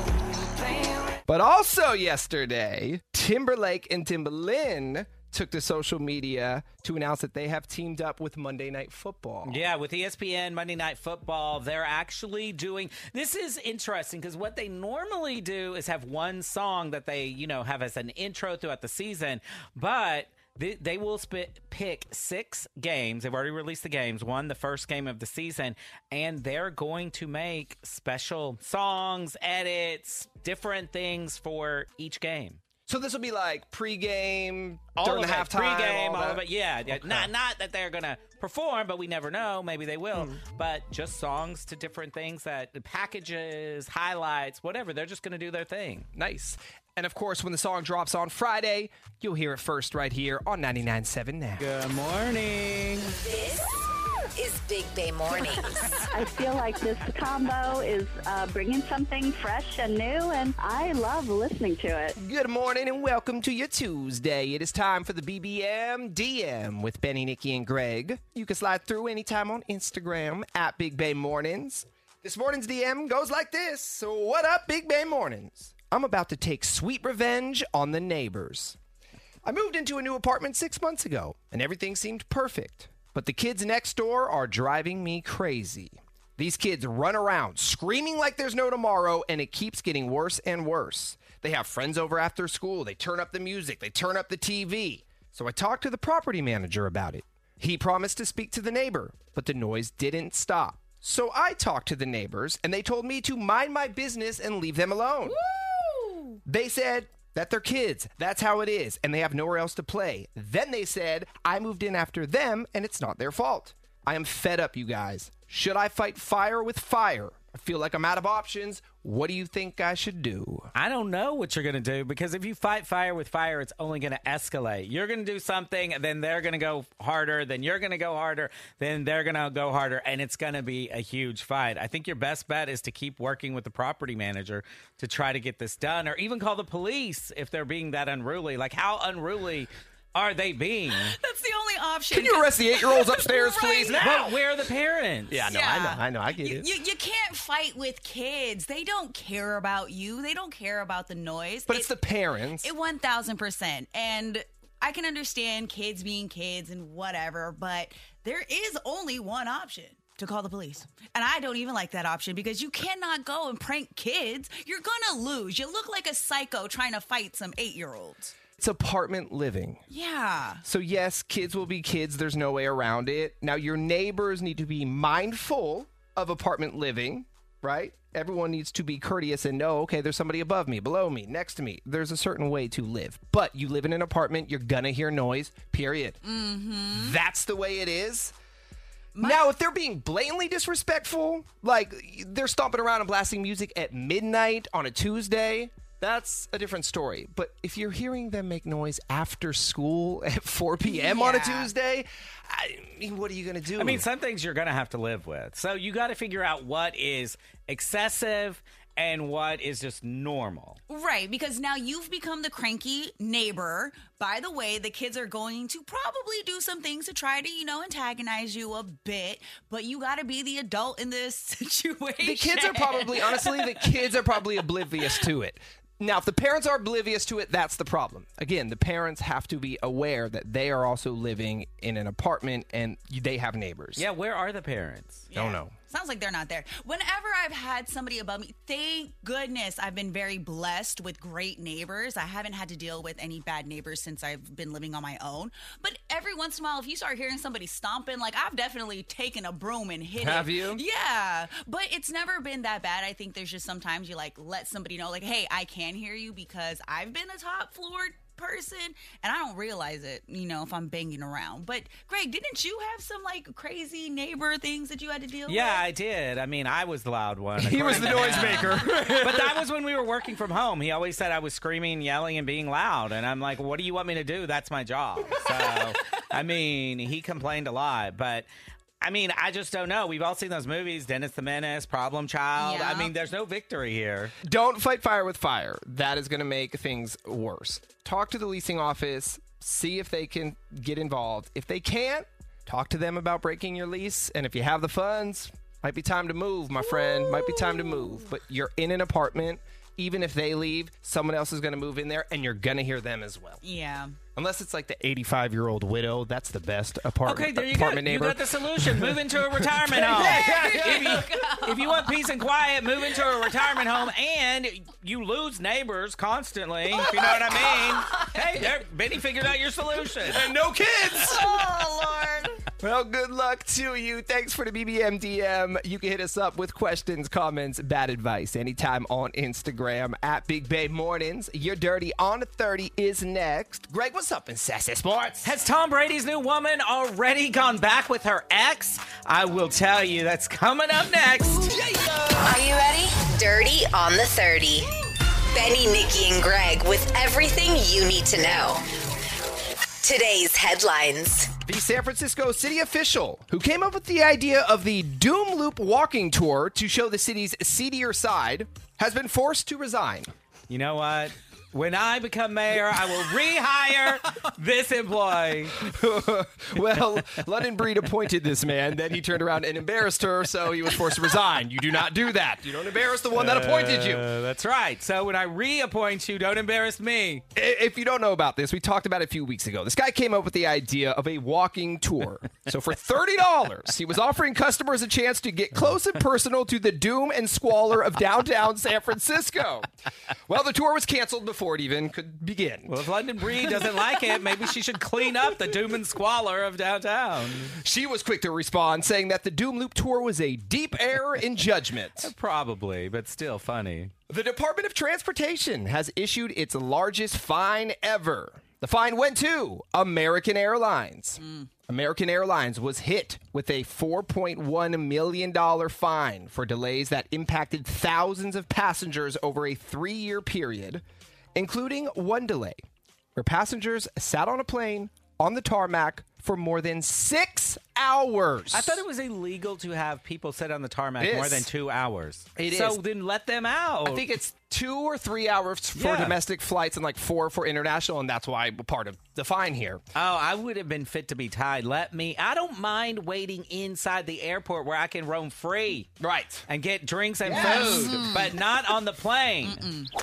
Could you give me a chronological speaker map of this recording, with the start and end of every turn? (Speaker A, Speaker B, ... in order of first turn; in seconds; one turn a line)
Speaker A: 1.2-9.6
Speaker B: 9.4-32.6
Speaker A: 32.9-37.3
Speaker B: 35.0-46.1
Speaker A: 46.1-51.7
Speaker B: 51.6-53.1
Speaker C: 53.2-56.0
Speaker D: 56.1-62.2
Speaker A: 62.2-78.8
Speaker A: 79.4-105.4
Speaker E: 105.3-106.4
Speaker A: 106.5-120.7
Speaker B: 120.8-141.1
Speaker E: 140.9-144.1
Speaker A: 142.1-144.3
Speaker B: 144.0-145.4
Speaker A: 145.3-146.7
Speaker E: 145.5-151.9
Speaker A: 151.7-152.7
Speaker E: 152.6-168.3
Speaker A: 168.6-169.8
Speaker E: 169.9-170.6
Speaker A: 170.6-186.2
Speaker E: 186.2-187.2
Speaker A: 186.9-188.3
Speaker E: 189.1-189.4
Speaker A: 189.2-204.1
Speaker E: 200.9-201.7
Speaker B: 203.8-210.8
Speaker E: 210.9-224.1
Speaker A: 222.2-234.1
Speaker B: 233.9-235.3
Speaker E: 235.3-265.8
Speaker A: 235.3-235.7
Speaker A: 250.2-250.8
Speaker B: 265.5-278.5
Speaker A: 267.6-269.6
Speaker E: 268.1-268.8
Speaker B: 279.0-284.3
Speaker E: 282.6-283.1
Speaker A: 284.4-303.6
Speaker E: 296.8-298.2
Speaker E: 303.6-304.2
Speaker A: 304.3-311.2
Speaker B: 307.2-320.5
Speaker E: 310.1-312.1
Speaker E: 317.7-318.4
Speaker A: 320.3-321.9
Speaker E: 321.1-322.6
Speaker A: 322.7-335.5
Speaker B: 335.4-341.8
Speaker A: 341.7-342.3
Speaker C: 342.4-344.9
Speaker C: 345.5-348.8
Speaker C: 350.0-351.5
Speaker A: 351.6-360.3
Speaker B: 360.7-365.9
Speaker A: 365.8-374.2
Speaker B: 373.3-377.4
Speaker A: 377.5-389.9
Speaker A: 390.5-393.0
Speaker B: 392.9-397.8
Speaker A: 397.8-402.3
Speaker B: 402.2-404.1
Speaker A: 404.3-421.0
Speaker E: 411.4-411.7
Speaker A: 421.5-422.8
Speaker A: 423.4-429.0
Speaker B: 428.7-434.3
Speaker A: 431.2-431.7
Speaker A: 432.6-433.0
Speaker A: 434.0-440.0
Speaker B: 436.0-436.4
Speaker B: 440.1-446.1
Speaker A: 446.2-446.6
Speaker B: 446.7-449.8
Speaker A: 447.4-448.2
Speaker E: 447.5-448.5
Speaker E: 449.7-450.1